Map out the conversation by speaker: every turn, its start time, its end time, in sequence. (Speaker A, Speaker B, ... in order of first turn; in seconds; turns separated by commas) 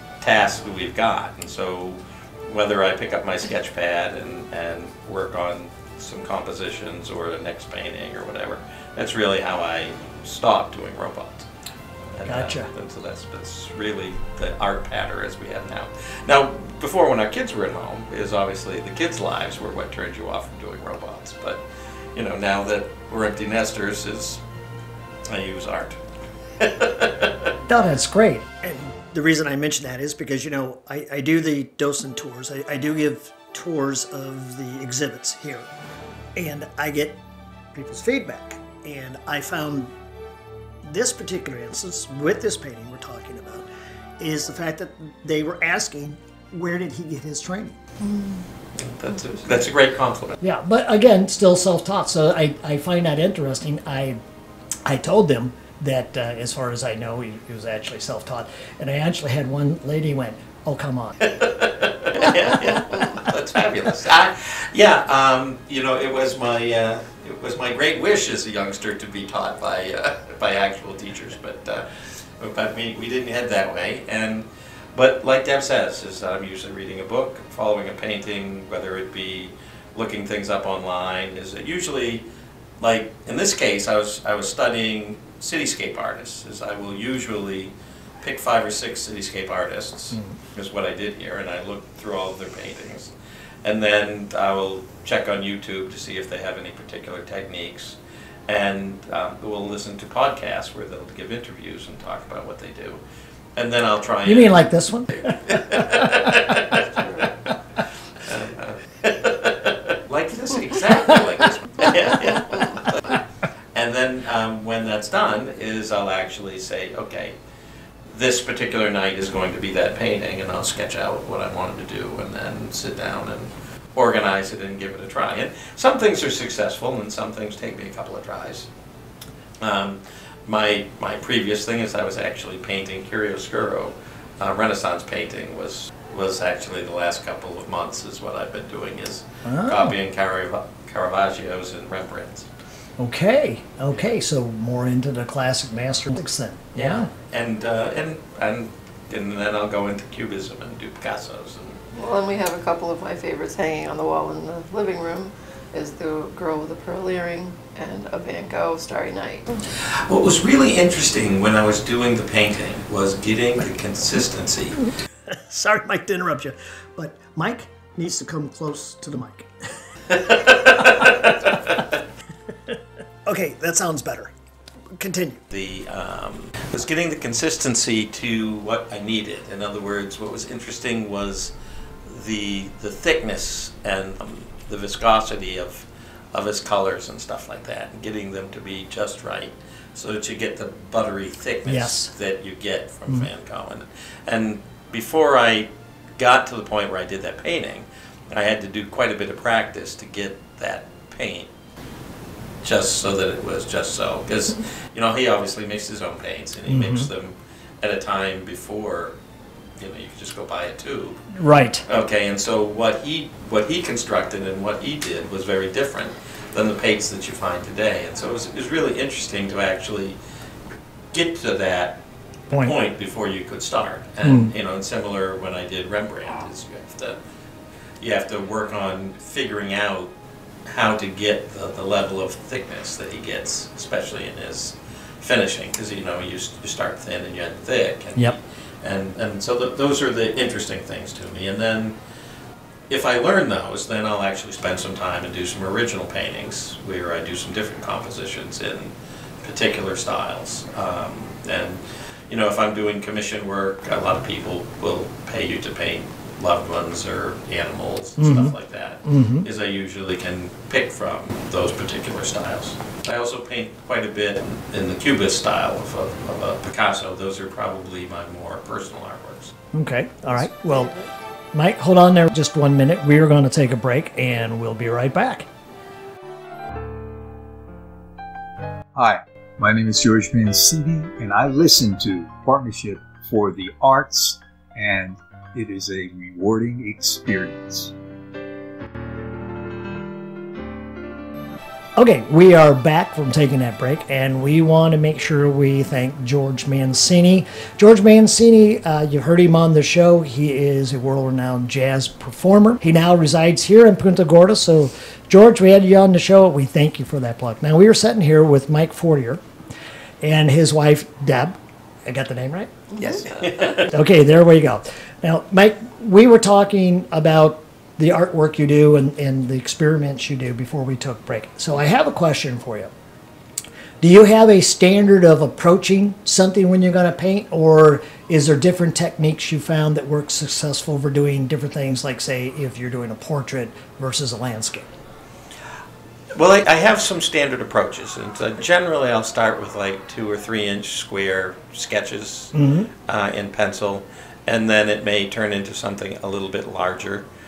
Speaker A: 0.2-11.5, Speaker A: 12.1-21.6, Speaker B: 12.2-12.7, Speaker A: 22.1-24.4, Speaker A: 25.3-26.0, Speaker A: 26.6-27.5, Speaker B: 27.6-35.7, Speaker B: 36.4-37.2, Speaker B: 37.7-39.9, Speaker B: 40.8-43.7, Speaker B: 44.2-47.8, Speaker C: 48.0-48.4, Speaker A: 48.8-50.4, Speaker B: 50.4-54.2, Speaker B: 54.9-61.1, Speaker A: 61.2-71.9, Speaker A: 72.4-82.2, Speaker A: 82.8-93.1, Speaker A: 93.6-103.0, Speaker A: 103.5-104.6, Speaker B: 104.2-105.5, Speaker A: 105.2-106.8, Speaker C: 106.8-107.3, Speaker A: 108.2-113.2, Speaker A: 113.8-117.3, Speaker A: 118.1-128.7, Speaker A: 129.6-142.5, Speaker B: 139.4-140.0, Speaker B: 143.0-147.1, Speaker A: 146.8-151.8, Speaker C: 151.9-159.5, Speaker A: 159.8-164.8, Speaker B: 165.3-169.5, Speaker A: 170.1-171.7, Speaker B: 170.6-171.5, Speaker B: 173.3-174.3, Speaker B: 175.0-175.4, Speaker A: 175.5-181.5, Speaker A: 182.0-201.5, Speaker B: 191.7-192.1, Speaker A: 202.6-209.2, Speaker B: 206.7-207.1, Speaker A: 209.8-211.2, Speaker B: 211.3-211.8, Speaker A: 211.8-220.2, Speaker A: 221.1-222.0, Speaker B: 222.5-222.8, Speaker A: 222.6-227.2, Speaker B: 224.2-224.5, Speaker A: 228.0-230.1, Speaker A: 230.7-242.0, Speaker A: 242.9-269.5, Speaker B: 258.2-259.5, Speaker B: 269.7-270.9, Speaker C: 270.4-271.1, Speaker B: 271.5-275.5, Speaker D: 278.9-287.9, Speaker B: 292.0-309.4, Speaker B: 310.2-312.7, Speaker A: 313.0-314.0, Speaker C: 313.1-313.5, Speaker B: 313.9-322.9, Speaker B: 324.0-334.9, Speaker A: 336.4-342.5, Speaker B: 342.5-342.9, Speaker A: 343.1-347.2